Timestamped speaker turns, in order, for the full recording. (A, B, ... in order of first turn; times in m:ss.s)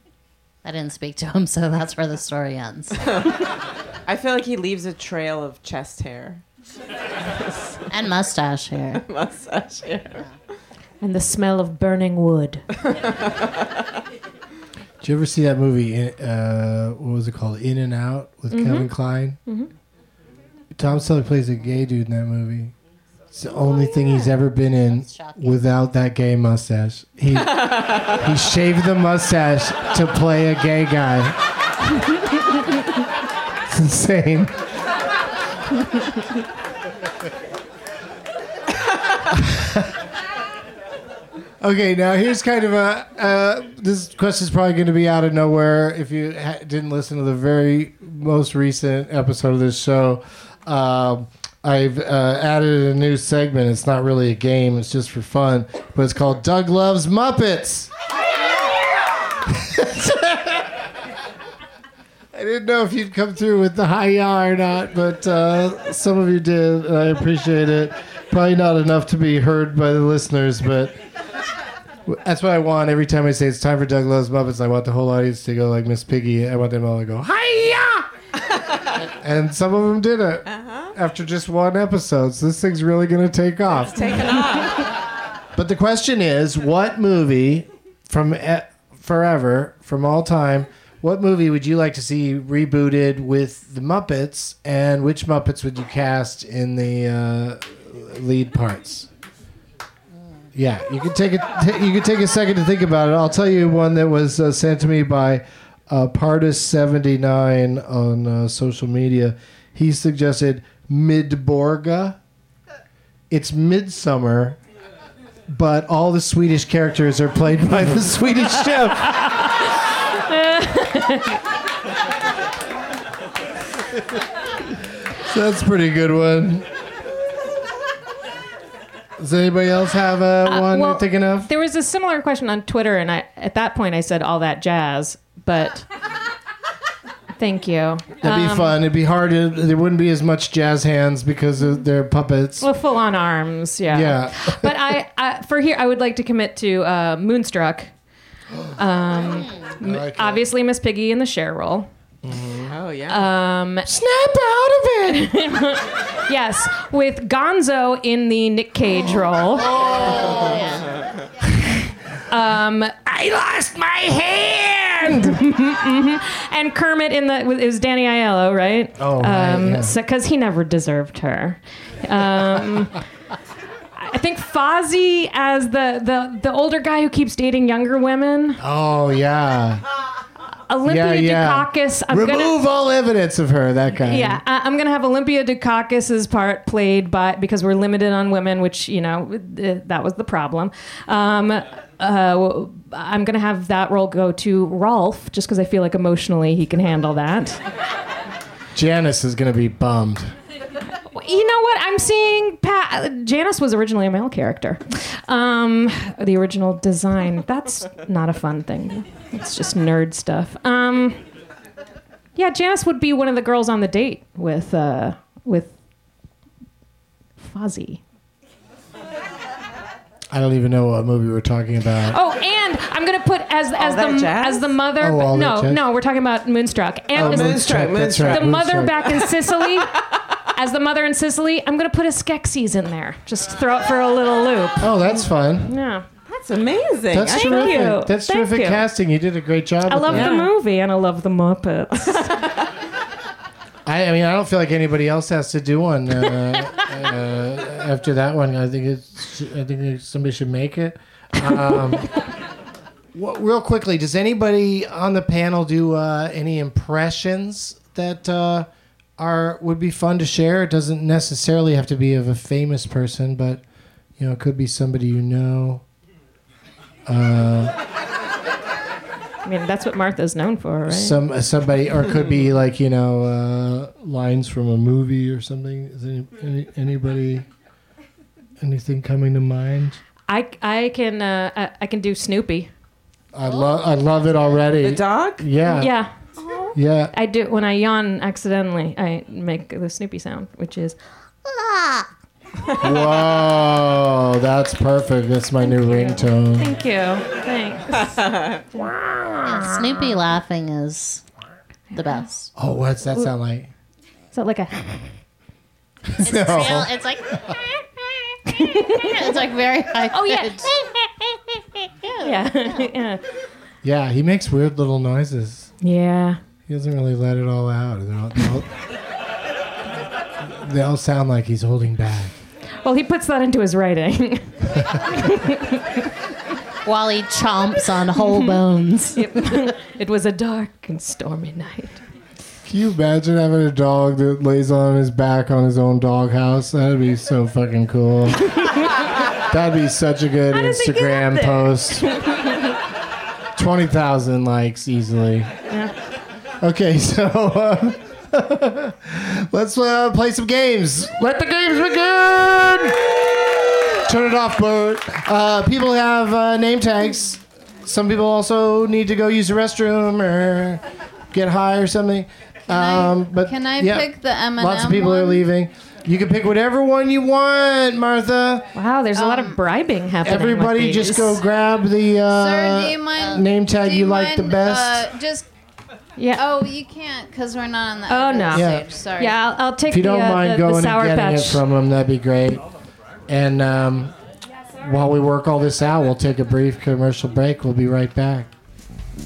0:00.6-0:03.0 A
0:04.1-0:06.4 B
0:07.3-0:07.8 B
0:07.9-0:09.0 A
0:09.0-0:10.2 B
0:11.0-0:12.6 C
0:12.9-0:13.3 B
0:15.0-0:19.4 D
0:18.5-0:18.9 C
0:19.4-0:19.7 C
0:20.7-0:22.7 D
0:23.3-0:31.4 D
0:24.9-0:25.6 A
0:33.7-0:34.5 D
0:39.3-0:40.0 D
0:41.6-0:57.9 D
0:59.4-1:00.8 D
1:02.3-1:11.0 D
1:12.0-1:18.1 D
1:19.0-1:24.2 D
1:20.5-1:20.9 B
1:23.8-1:24.9 B
1:25.5-1:39.1 D
1:40.5-1:52.2 D
1:53.3-1:54.6 D
1:55.5-1:59.3 D
2:00.3-2:01.4 C
2:05.2-2:06.7 D
2:09.2-2:11.5 D
2:10.4-2:15.8 C
2:17.4-2:18.8 C
2:18.2-2:22.7 D
2:22.6-2:27.9 C
2:23.9-2:24.7 D
2:28.7-2:31.9 C
2:29.8-2:30.4 D
2:32.2-2:32.7 D
2:32.7-2:33.3 B
2:33.1-2:33.9 C
2:33.8-2:35.3 D
2:35.0-2:39.7 C
2:39.6-2:40.8 D
2:42.3-2:43.0 C
2:43.0-2:45.4 D
2:45.0-2:53.0 C
2:49.0-2:50.0 D
2:54.0-2:58.6 C
2:58.6-2:59.8 D
3:00.7-3:02.6 C
3:00.8-3:04.4 D
3:04.0-3:17.6 C
3:18.7-3:20.3 D
3:21.1-3:31.2 C
3:32.4-3:35.7 C
3:37.4-3:38.0 C
3:40.3-3:42.2 D
3:42.1-3:55.0 C
3:43.8-3:44.7 B
3:45.0-3:45.8 D
3:47.1-3:49.2 D
3:47.1-3:48.6 B
3:54.8-3:55.8 D
3:55.6-3:56.0 C
3:56.2-3:57.7 B
3:57.1-4:00.4 D
3:57.2-3:58.8 C
3:59.8-4:02.4 C
4:00.1-4:00.5 B
4:03.8-4:12.1 D
4:13.1-4:23.6 D
4:24.2-4:25.8 D
4:27.1-4:27.7 D
4:29.4-4:31.2 C
4:30.9-4:37.4 D
4:38.6-4:40.0 D
4:40.3-4:42.7 C
4:43.3-4:45.9 D
4:43.5-4:43.7 A
4:44.8-4:45.5 B
4:45.7-4:51.0 C
4:46.7-4:47.1 D
4:51.4-4:52.1 A
4:52.8-4:56.7 D
4:55.6-4:58.8 C
4:58.1-4:58.6 B
4:59.1-4:59.7 D
4:59.4-5:01.2 A
5:01.9-5:02.2 C
5:01.9-5:02.5 A
5:02.6-5:03.7 D
5:04.3-5:05.2 C
5:06.1-5:06.9 D
5:06.2-5:07.6 A
5:08.5-5:12.9 A
5:08.5-5:09.3 C
5:10.1-5:10.7 C
5:12.2-5:13.2 C
5:13.8-5:15.7 D
5:15.8-5:16.4 C
5:16.7-5:18.7 D
5:20.4-5:22.3 D
5:22.8-5:26.0 C
5:26.8-5:29.3 A
5:28.2-5:28.5 C
5:29.2-5:32.0 C
5:32.6-5:38.6 D
5:39.4-5:42.1 D
5:40.5-5:42.7 C
5:43.6-5:45.5 D
5:46.6-5:53.1 D
5:54.0-6:08.7 D
6:02.7-6:05.4 E
6:08.7-6:11.4 C
6:09.1-6:09.6 E
6:10.2-6:15.1 D
6:12.3-6:15.5 E
6:16.2-6:16.4 C
6:16.3-6:19.4 E
6:18.1-6:21.6 C
6:18.5-6:18.8 D
6:19.9-6:22.6 D
6:23.3-6:24.1 D
6:24.8-6:28.5 D